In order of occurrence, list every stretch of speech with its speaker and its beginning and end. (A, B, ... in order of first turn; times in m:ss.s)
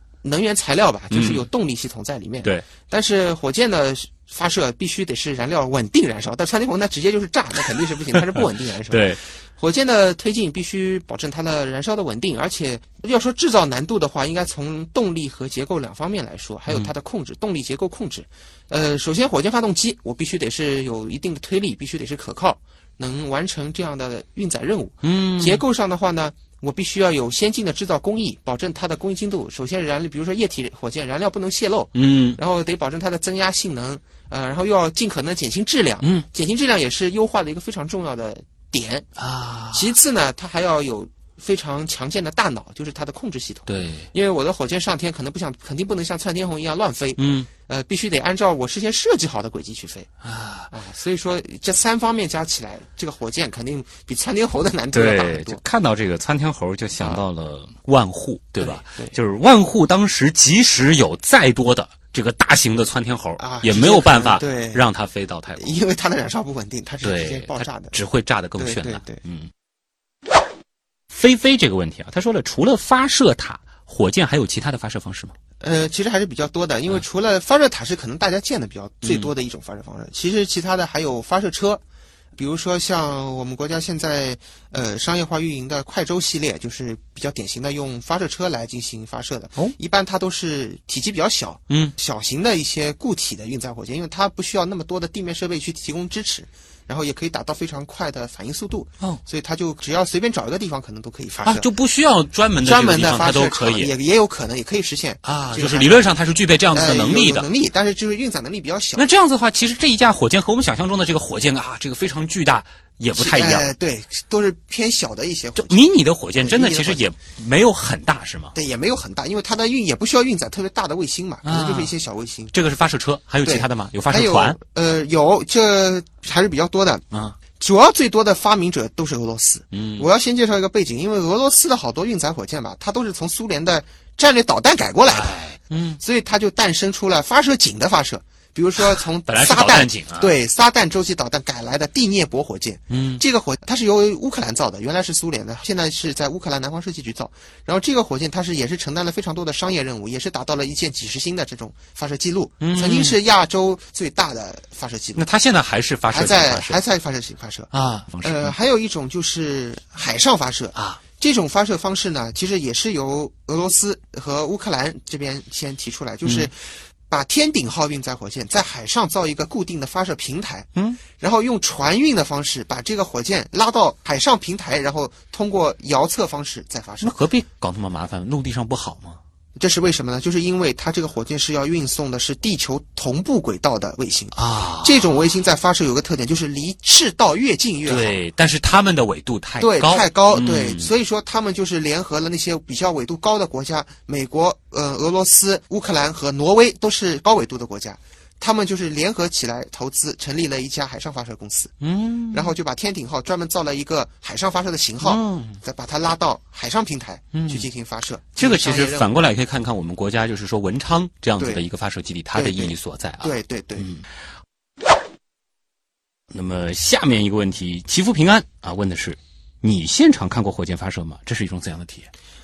0:00.2-0:39.1 A
0:01.1-0:01.4 B
0:08.1-0:09.2 B
0:25.0-0:25.6 B
0:31.9-0:32.4 B
0:39.2-0:39.9 B
0:39.7-0:50.1 A
0:43.7-0:44.1 B
0:47.2-0:47.5 B
0:50.2-0:50.7 B
0:50.7-0:55.6 A
0:54.9-1:05.8 B
0:58.6-0:59.1 A
1:03.4-1:04.8 A
1:05.6-1:07.9 A
1:07.0-1:09.5 B
1:08.6-1:09.2 A
1:11.1-1:15.3 B
1:15.6-1:21.8 A
1:19.0-1:19.3 B
1:22.4-1:41.7 A
1:31.7-1:31.9 B
1:41.4-1:43.9 B
1:42.6-1:46.1 A
1:45.2-1:47.5 B
1:46.7-1:49.1 A
1:49.0-1:53.7 B
1:53.1-1:55.8 A
1:55.6-1:58.5 B
1:56.4-1:57.0 A
1:58.5-2:02.6 A
2:01.4-2:01.9 B
2:02.5-2:04.6 B
2:03.4-2:07.0 A
2:07.1-2:07.4 B
2:07.6-2:15.4 A
2:09.7-2:10.1 B
2:15.1-2:16.0 B
2:16.0-2:35.2 A
2:18.8-2:20.3 B
2:22.9-2:23.2 B
2:32.6-2:33.2 B
2:35.2-2:36.8 B
2:36.1-2:37.7 A
2:37.7-2:38.5 B
2:38.2-2:57.2 A
2:40.7-2:41.0 B
2:46.2-2:46.5 B
2:50.7-2:51.0 B
2:57.0-2:59.2 B
2:59.6-3:08.2 A
3:04.3-3:05.1 B
3:07.8-3:10.9 B
3:09.6-3:21.7 A
3:21.8-3:22.5 B
3:22.3-3:29.1 A
3:25.0-3:25.6 B
3:27.3-3:27.7 B
3:28.4-3:34.0 B
3:31.4-3:31.6 A
3:32.3-3:33.9 A
3:36.3-3:42.1 B